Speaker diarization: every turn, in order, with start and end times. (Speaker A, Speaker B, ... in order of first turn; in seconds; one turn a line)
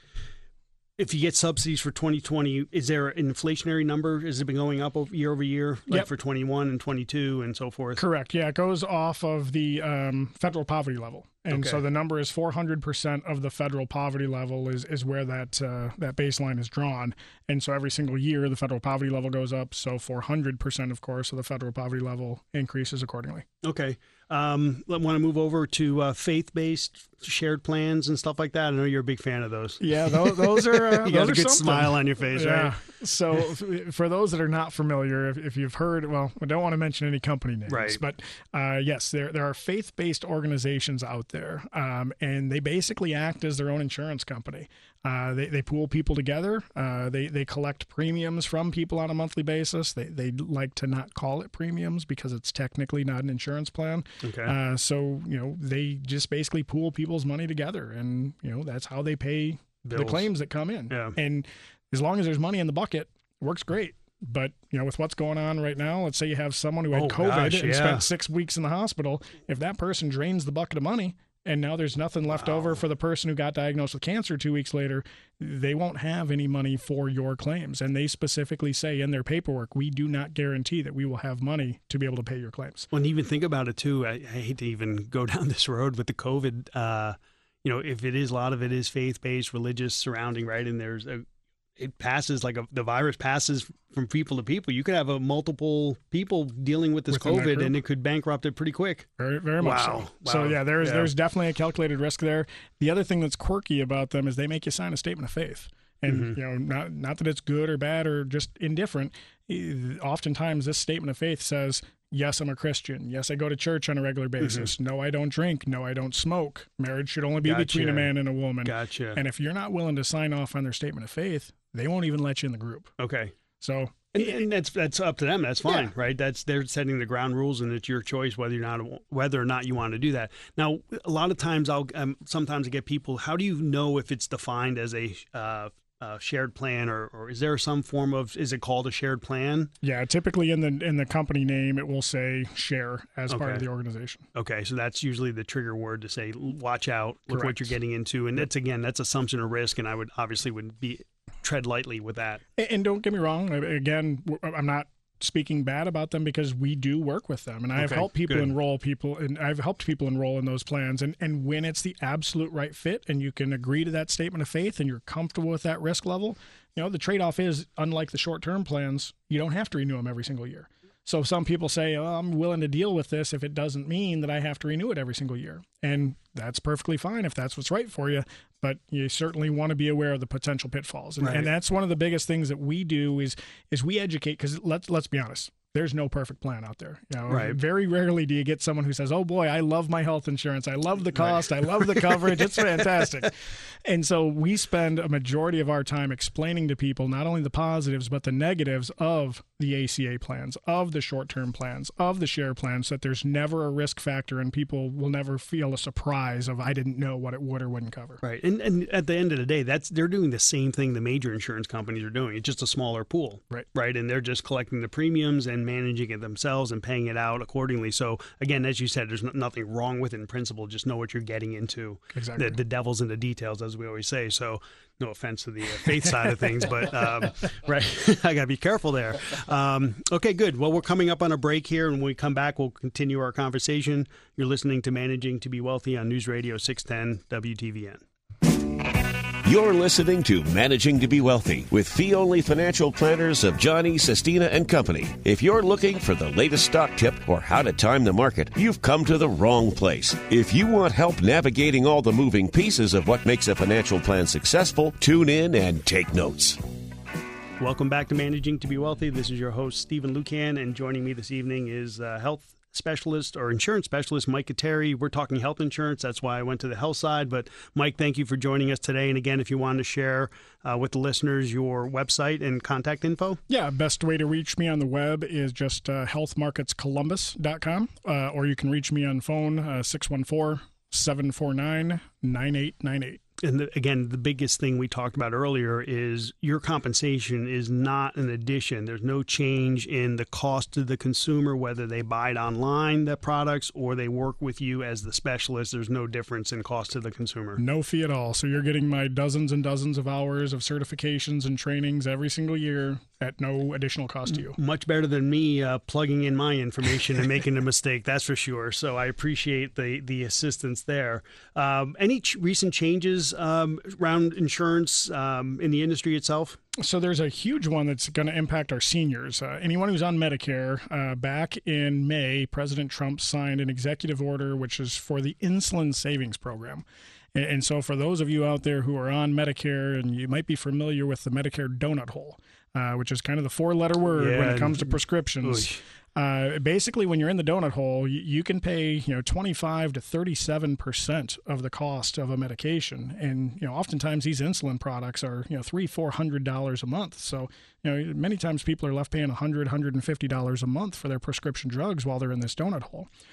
Speaker A: 1.0-8.0
Speaker B: 8.0-23.4
Speaker A: 11.5-11.8
Speaker A: 23.6-32.8
Speaker B: 29.8-82.9
Speaker A: 37.7-38.0
Speaker A: 54.2-54.5
Speaker A: 59.8-60.3
Speaker A: 60.9-61.2
Speaker A: 66.9-68.1
Speaker A: 72.4-72.7
Speaker A: 82.9-91.2
Speaker A: 91.8-99.1
Speaker B: 97.1-97.8
Speaker B: 99.2-123.0
Speaker A: 99.6-101.1
Speaker A: 106.1-106.4
Speaker A: 114.4-114.7
Speaker A: 117.4-118.1
Speaker A: 118.6-119.2
Speaker A: 123.0-123.3
Speaker B: 123.6-124.4
Speaker A: 124.1-139.7
Speaker B: 139.8-144.2
Speaker A: 143.3-143.6
Speaker A: 144.3-152.4
Speaker B: 147.3-147.7
Speaker B: 152.6-208.2
Speaker A: 157.8-158.5
Speaker A: 181.2-181.5
Speaker A: 187.3-187.6
Speaker A: 191.2-193.0
Speaker A: 208.2-238.0
Speaker B: 222.1-222.6
Speaker B: 226.0-226.3
Speaker C: 239.4-256.6
Speaker A: 257.6-273.4
Speaker B: 273.5-283.2
Speaker A: 283.4-297.6
Speaker B: 297.6-304.6
Speaker A: 304.4-316.6
Speaker B: 316.8-353.1
Speaker A: 334.1-335.8